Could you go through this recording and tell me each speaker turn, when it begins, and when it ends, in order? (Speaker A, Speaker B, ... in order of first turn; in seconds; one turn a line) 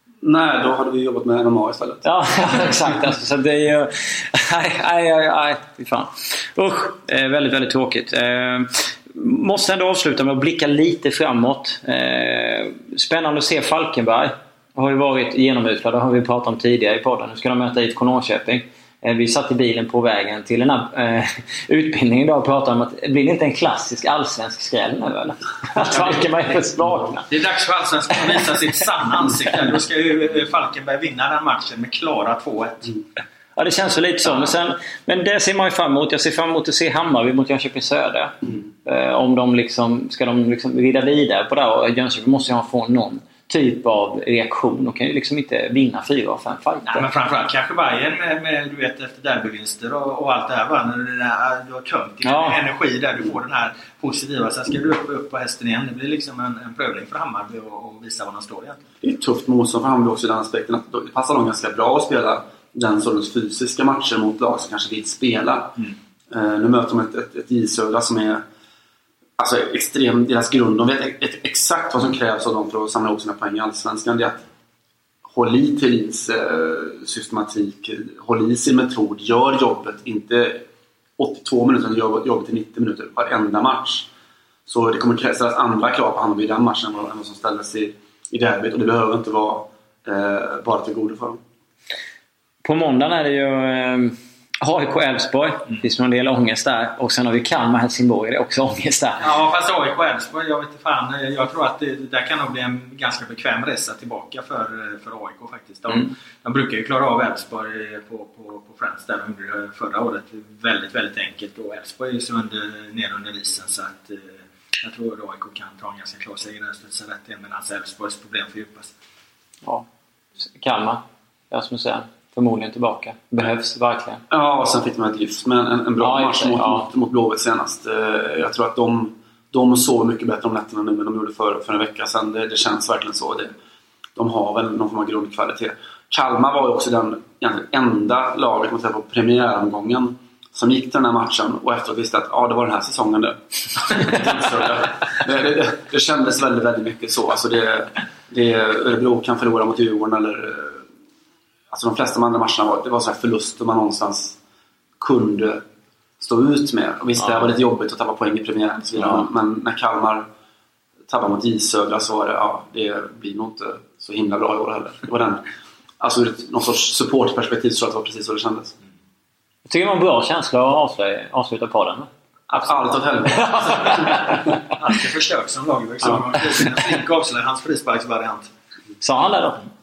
Speaker A: 0.2-2.0
Speaker B: 2.0-27.3
Speaker C: 27.3-32.9
Speaker B: 33.5-47.1
Speaker C: 46.8-58.8
Speaker B: 52.2-52.6
Speaker A: 59.0-68.4
Speaker A: 69.4-74.4
Speaker A: 75.2-80.6
Speaker A: 81.2-84.1
Speaker A: 84.7-91.4
Speaker B: 92.6-99.3
Speaker C: 99.2-118.9
Speaker B: 120.5-124.2
Speaker A: 124.3-133.5
Speaker B: 126.0-126.9
Speaker A: 134.2-150.8
Speaker A: 151.7-154.4
Speaker A: 155.0-155.6
Speaker A: 156.2-160.3
Speaker B: 157.2-157.5
Speaker A: 161.1-165.4
Speaker A: 166.0-168.7
Speaker B: 169.7-172.1
Speaker A: 172.5-174.3
Speaker C: 172.5-172.8
Speaker B: 173.4-174.4
Speaker C: 173.7-178.5
Speaker B: 179.0-179.7